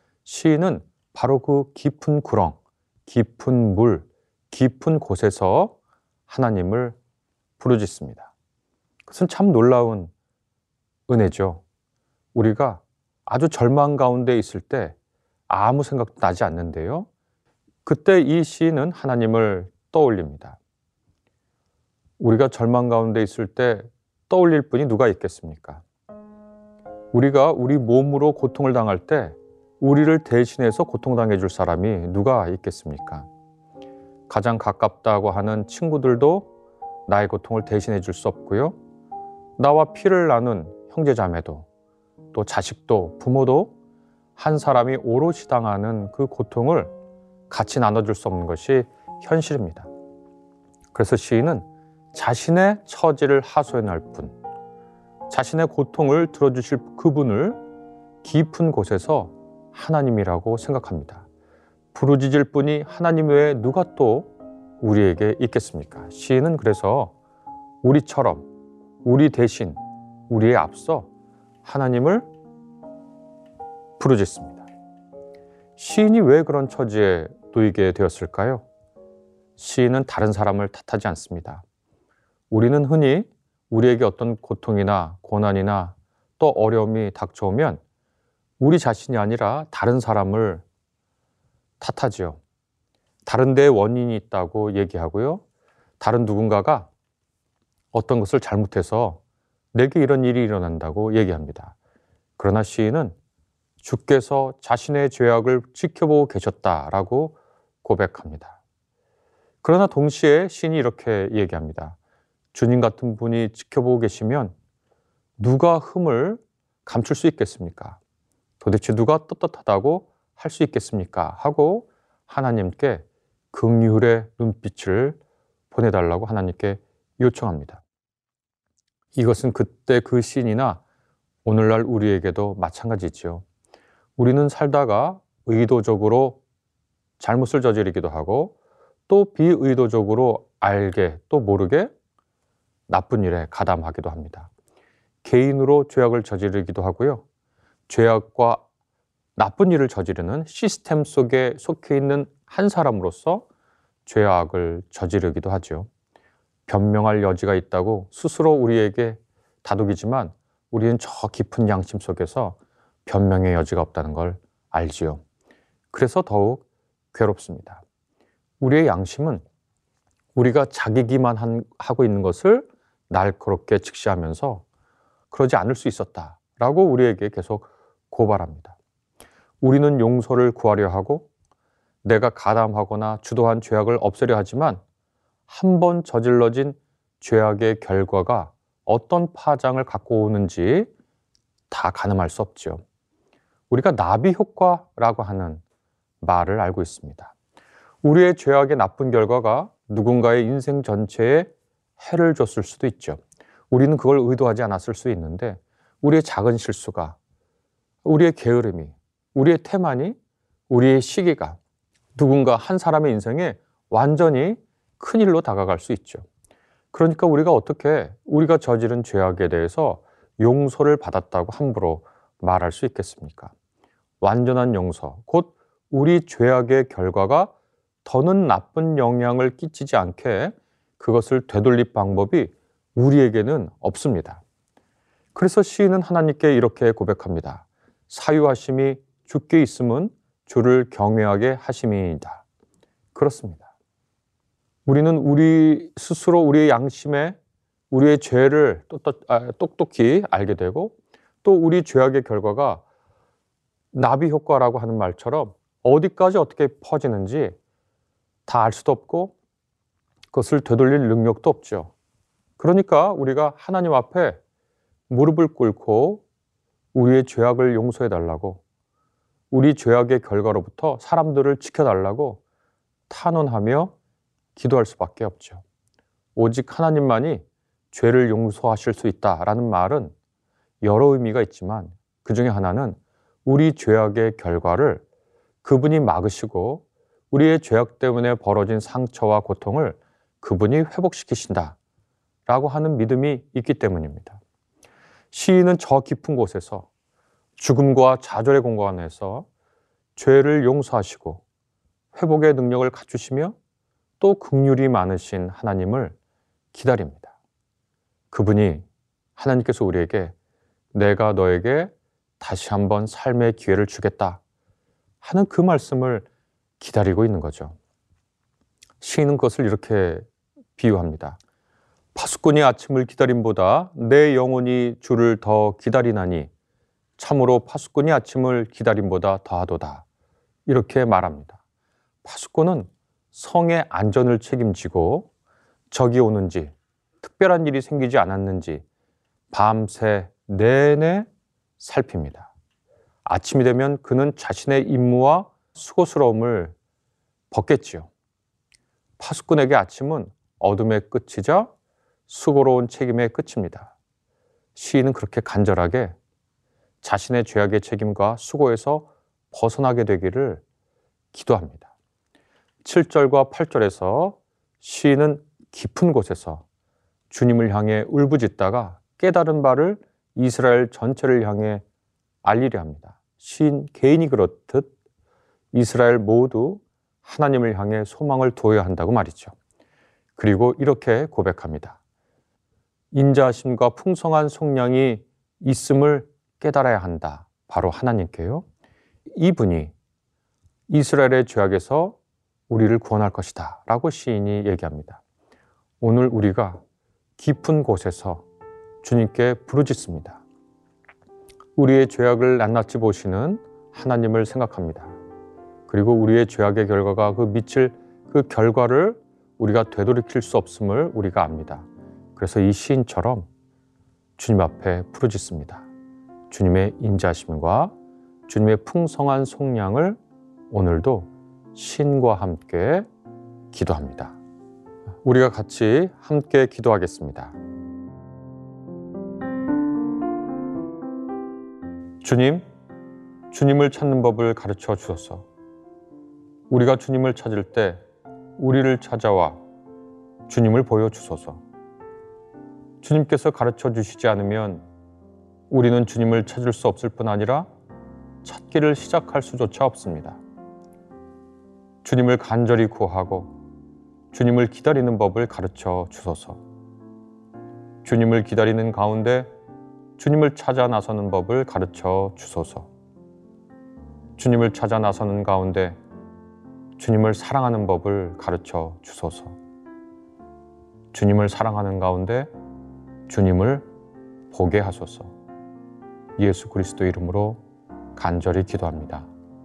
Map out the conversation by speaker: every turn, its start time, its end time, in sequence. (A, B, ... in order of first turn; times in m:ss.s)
0:00.2-0:05.8 A
0:06.3-0:07.0 A
0:07.6-0:08.3 A
0:09.1-0:10.1 A
0:11.1-0:11.6 A
0:12.3-0:15.0 A
0:15.5-0:17.1 A
0:17.8-0:20.6 A
0:22.2-0:25.8 A
0:27.1-0:33.3 A
0:34.3-0:36.5 A
0:37.1-0:38.8 A
0:39.6-0:41.7 A
0:42.3-0:43.7 A
0:44.4-0:46.9 A
0:47.5-0:49.9 A
0:50.9-0:54.3 A
0:55.3-0:57.6 A
0:58.2-1:01.3 A
1:01.9-1:07.1 A
1:07.8-1:08.5 A
1:09.0-1:11.1 A
1:11.6-1:12.3 A
1:14.0-1:14.7 A
1:15.8-1:18.6 A
1:19.6-1:21.6 A
1:22.5-1:27.8 A
1:28.6-1:30.6 A
1:31.8-1:32.4 A
1:33.2-1:35.4 A
1:36.0-1:36.9 A
1:37.9-1:39.2 A
1:39.7-1:41.7 A
1:42.4-1:43.1 A
1:43.8-1:48.6 A
1:49.6-1:52.0 A
1:52.5-1:54.5 A
1:55.4-1:58.0 A
1:58.6-2:05.2 A
2:05.7-2:07.8 A
2:09.1-2:10.8 A
2:11.4-2:13.4 A
2:14.2-2:16.4 A
2:17.2-2:18.6 A
2:19.1-2:21.9 A
2:22.9-2:24.5 A
2:25.2-2:27.2 A
2:27.9-2:28.6 A
2:29.4-2:33.4 A
2:34.0-2:35.9 A
2:36.7-2:45.2 A
2:45.9-2:47.8 A
2:48.6-2:49.4 A
2:50.3-2:54.6 A
2:55.3-2:58.8 A
2:59.6-3:01.3 A
3:02.0-3:04.8 A
3:05.5-3:10.9 A
3:11.7-3:12.8 A
3:13.7-3:15.6 A
3:16.2-3:17.3 A
3:18.0-3:27.2 A
3:28.0-3:30.2 A
3:30.7-3:31.6 A
3:32.2-3:36.2 A
3:36.9-3:43.5 A
3:44.2-3:47.5 A
3:48.0-3:54.4 A
3:55.3-4:02.4 A
4:03.1-4:03.7 A
4:04.8-4:07.4 A
4:07.9-4:12.8 A
4:13.9-4:17.6 A
4:18.5-4:19.4 A
4:20.3-4:21.9 A
4:22.6-4:24.4 A
4:25.1-4:26.2 A
4:26.9-4:28.6 A
4:29.5-4:32.4 A
4:33.1-4:33.9 A
4:34.6-4:35.6 A
4:36.4-4:40.1 A
4:40.8-4:45.0 A
4:45.6-4:51.8 A
4:52.5-4:54.4 A
4:55.3-4:56.9 A
4:57.6-4:59.5 A
5:00.2-5:01.4 A
5:02.1-5:03.5 A
5:04.2-5:06.2 A
5:06.7-5:07.3 A
5:08.3-5:08.8 A
5:09.4-5:10.3 A
5:10.9-5:14.4 A
5:15.2-5:16.2 A
5:16.8-5:17.8 A
5:19.0-5:20.2 A
5:20.8-5:21.4 A
5:22.1-5:26.5 A
5:27.2-5:30.0 A
5:30.7-5:31.6 A
5:32.2-5:35.3 A
5:35.9-5:38.8 A
5:39.5-5:41.3 A
5:41.8-5:42.5 A
5:43.2-5:46.7 A
5:47.5-5:48.1 A
5:49.2-5:51.7 A
5:52.3-5:53.9 A
5:54.7-5:56.2 A
5:57.0-6:00.6 A
6:01.3-6:01.9 A
6:02.8-6:06.6 A
6:07.3-6:11.8 A
6:12.4-6:14.9 A
6:15.7-6:19.5 A
6:20.4-6:22.0 A
6:23.1-6:28.6 A
6:29.3-6:29.9 A
6:30.9-6:32.2 A
6:32.7-6:35.2 A
6:36.0-6:36.8 A
6:37.4-6:38.4 A
6:39.0-6:40.4 A
6:41.8-6:45.1 A
6:45.9-6:53.5 A
6:54.4-6:55.9 A
6:56.5-6:57.9 A
6:58.5-7:00.2 A
7:00.7-7:03.0 A
7:03.7-7:04.4 A
7:05.2-7:07.5 A
7:12.2-7:12.6 A
7:13.5-7:15.4 A
7:16.7-7:18.0 A
7:18.6-7:19.6 A
7:20.5-7:21.6 A
7:23.0-7:24.8 A
7:25.7-7:27.7 A
7:28.4-7:30.4 A
7:32.0-7:33.5 A
7:34.3-7:36.6 A
7:38.0-7:39.5 A
7:40.2-7:42.9 A
7:44.4-7:46.0 A
7:47.0-7:49.6 A
7:51.1-7:52.5 A
7:53.3-7:53.8 A
7:54.5-7:55.3 A
7:56.4-7:57.6 A
7:58.2-7:59.3 A